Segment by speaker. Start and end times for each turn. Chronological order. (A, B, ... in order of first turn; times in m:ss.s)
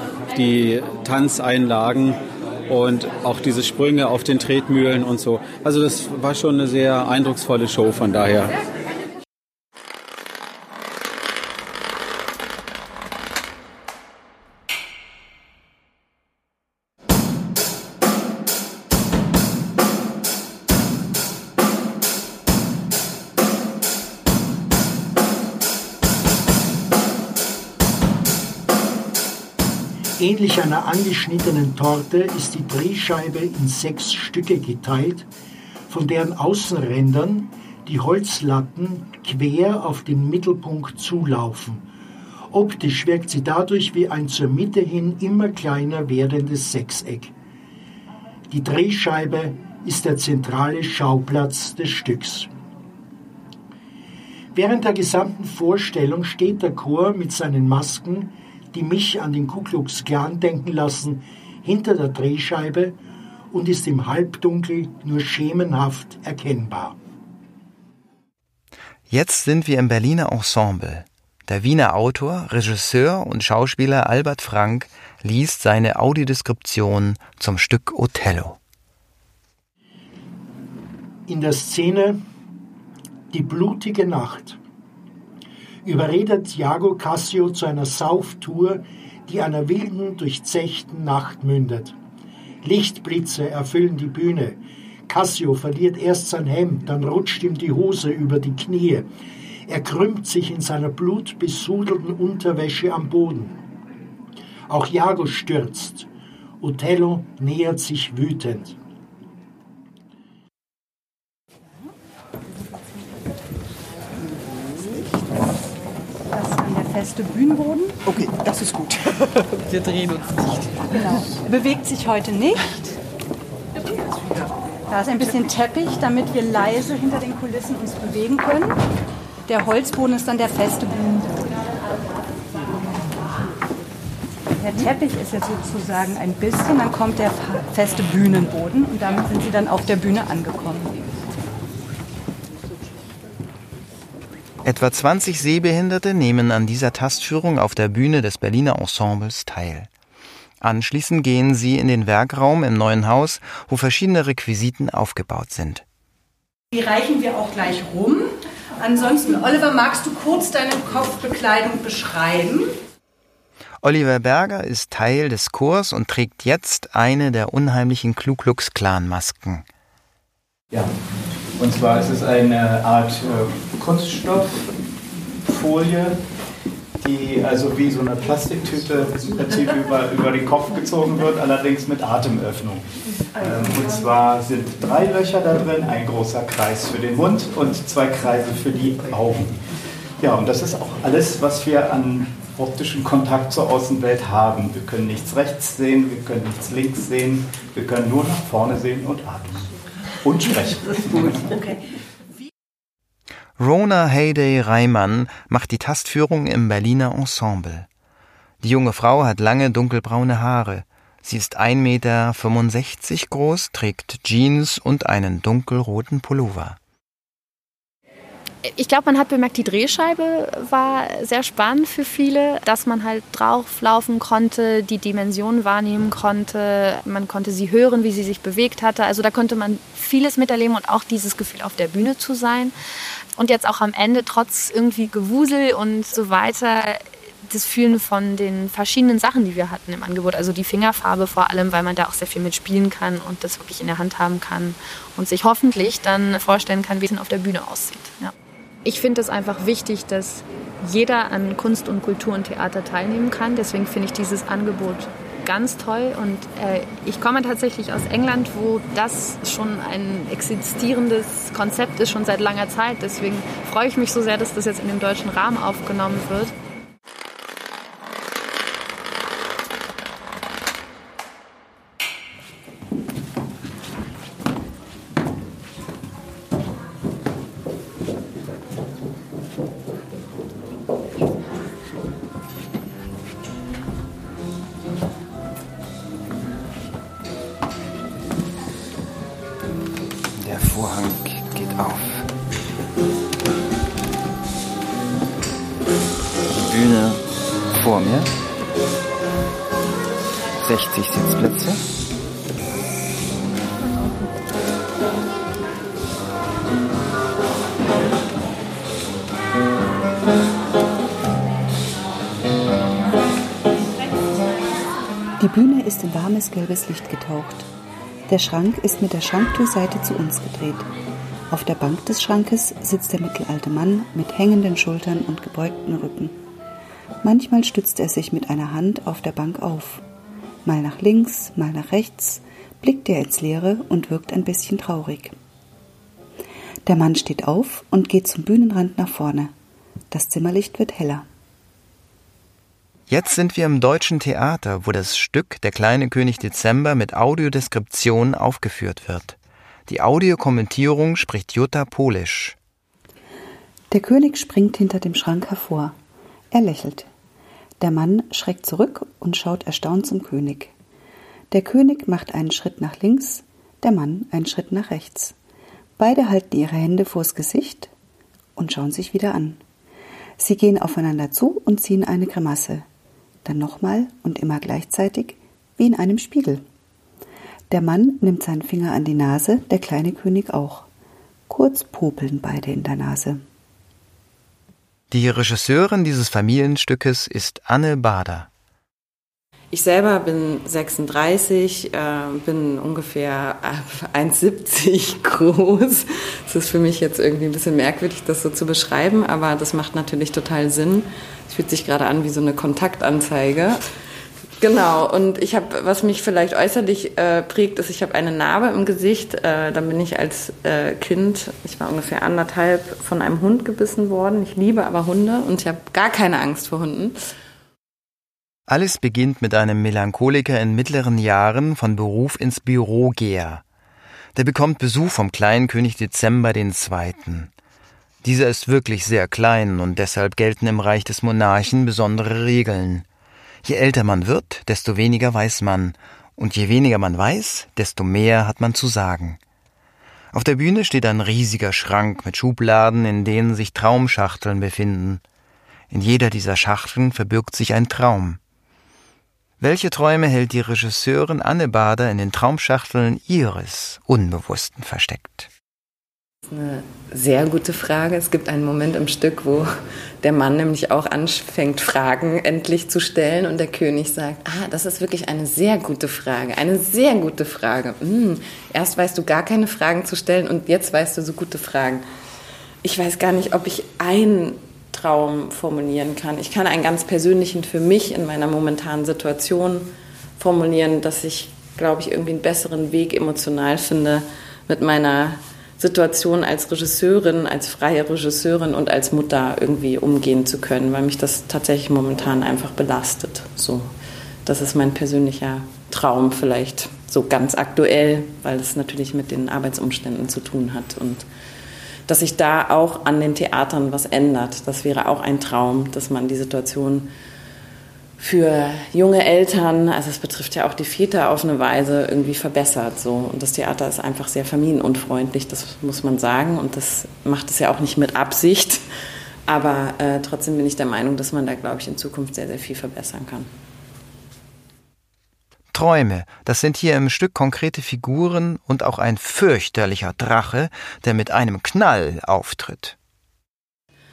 0:00.3-0:08.5 A
0:30.2-0:35.2 B
0:35.9-0:41.8 B
0:42.5-0:47.3 B
0:48.5-0:52.5 B
0:54.5-1:03.0 B
1:03.5-1:07.0 B
1:09.1-1:18.6 C
1:21.3-1:22.2 B
1:23.3-1:24.6 B
1:25.8-1:31.9 B
1:32.6-1:39.0 B
1:39.7-1:43.6 B
1:44.7-1:46.1 B
1:46.6-1:48.8 B
1:56.3-1:58.0 D
2:00.9-2:02.9 D
2:04.9-2:08.8 D
2:09.5-2:11.3 D
2:14.6-2:20.9 D
2:24.6-2:29.9 C
2:30.6-2:35.8 C
2:36.7-2:38.3 D
2:38.8-2:42.7 D
2:43.8-2:49.6 C
2:51.6-2:54.7 E
2:55.4-2:56.2 E
2:57.0-3:02.8 E
3:03.3-3:09.6 E
3:10.2-3:19.7 E
3:20.2-3:21.7 E
3:23.6-3:27.9 C
3:28.6-3:36.8 C
3:38.6-3:52.8 F
3:53.3-4:08.3 F
4:08.8-4:26.5 F
4:50.4-4:52.3 C
4:56.5-4:57.2 C
4:57.7-4:58.3 C
5:00.5-5:01.8 C
5:15.4-5:17.7 G
5:18.3-5:20.9 G
5:21.5-5:26.3 G
5:27.2-5:30.0 G
5:30.6-5:35.3 G
5:36.8-5:39.5 G
5:40.1-5:41.2 G
5:43.1-5:49.4 C
5:49.9-5:52.5 C
5:53.9-5:55.9 G
5:56.5-5:57.1 G
5:57.8-6:00.7 G
6:01.5-6:05.3 G
6:06.0-6:07.9 G
6:08.6-6:09.6 G
6:10.4-6:12.8 G
6:13.4-6:16.6 G
6:17.7-6:20.9 G
6:21.5-6:23.4 G
6:25.1-6:28.5 C
6:29.7-6:43.8 H
6:44.6-6:57.2 H
6:58.7-7:03.6 C
7:04.4-7:07.5 C
7:08.2-7:13.0 C
7:13.6-7:19.4 C
7:20.3-7:25.2 C
7:25.9-7:28.4 C
7:29.6-7:35.5 C
7:36.5-7:39.7 H
7:40.2-7:52.0 H
7:52.8-8:13.9 H
8:14.4-8:21.2 H
8:22.1-8:27.1 H
8:28.2-8:38.8 H
8:39.5-8:43.5 H
8:45.7-8:52.9 C